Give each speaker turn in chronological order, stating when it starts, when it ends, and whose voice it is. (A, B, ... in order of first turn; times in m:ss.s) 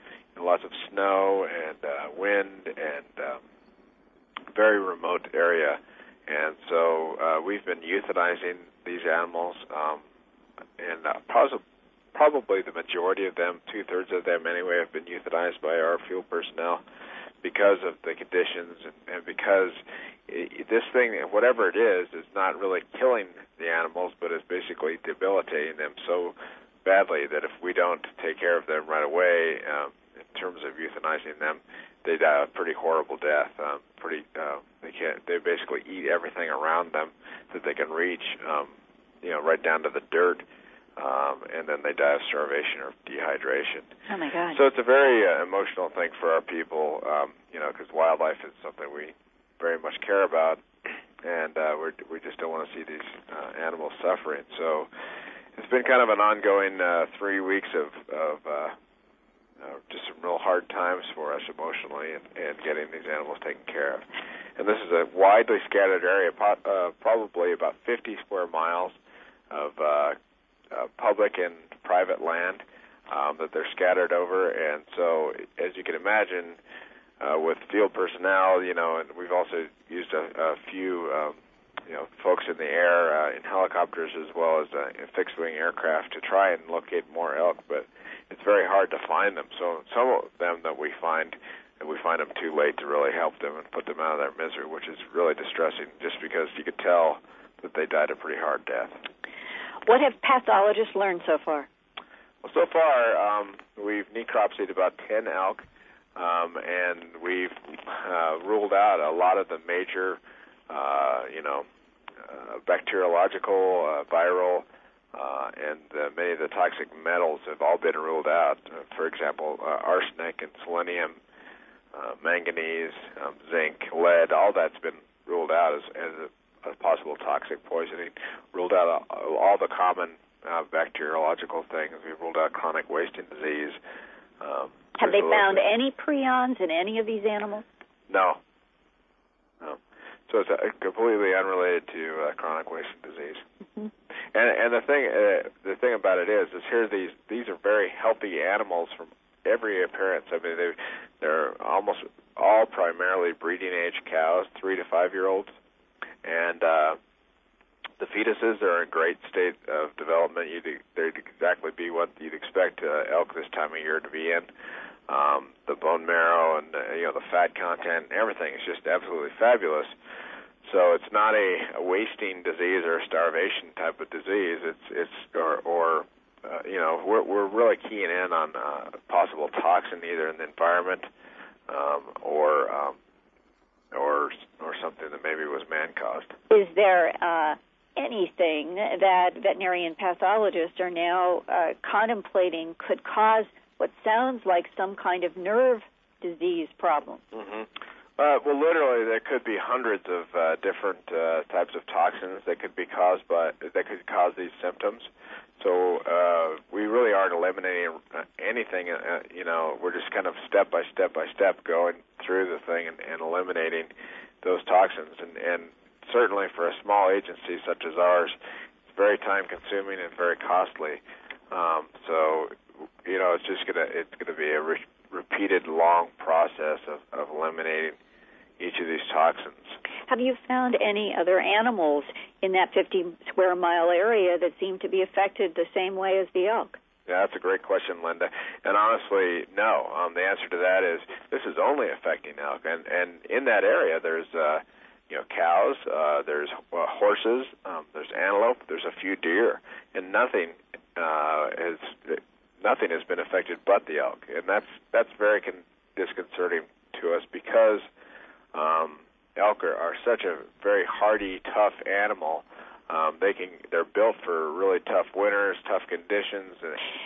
0:00.4-0:03.4 A
0:04.5-0:10.0 A
0:10.8-0:11.6 A
0:12.1-0:16.8 A
0:17.4-0:40.4 A
0:41.0-0:43.9 A
0:44.1-0:44.6 B
0:44.5-0:50.6 A
0:51.2-0:54.9 A
0:55.6-0:58.7 A
0:59.6-1:04.0 A
1:04.6-1:09.0 A
1:09.5-1:10.2 A
1:10.7-1:16.6 A
1:17.2-1:38.9 A
1:39.8-1:41.7 B
1:42.4-1:45.6 A
1:46.2-1:50.2 A
1:50.7-1:51.6 A
1:52.2-2:01.2 A
2:01.9-2:13.8 A
2:14.4-2:15.6 A
2:15.0-2:17.6 B
2:18.1-2:18.4 A
2:19.6-2:23.4 A
2:24.3-2:35.5 A
2:36.2-2:37.0 A
2:38.0-2:44.5 A
2:45.1-2:49.9 A
2:50.6-3:01.1 A
3:01.7-3:03.0 A
3:03.9-3:06.3 A
3:06.5-3:17.2 B
3:17.3-3:33.9 A
3:34.4-3:38.4 A
3:38.9-3:41.0 A
3:41.5-3:42.5 A
3:43.0-3:48.0 A
3:48.6-3:49.8 A
3:50.1-3:56.8 B
3:57.1-4:17.8 A
4:18.5-4:26.8 A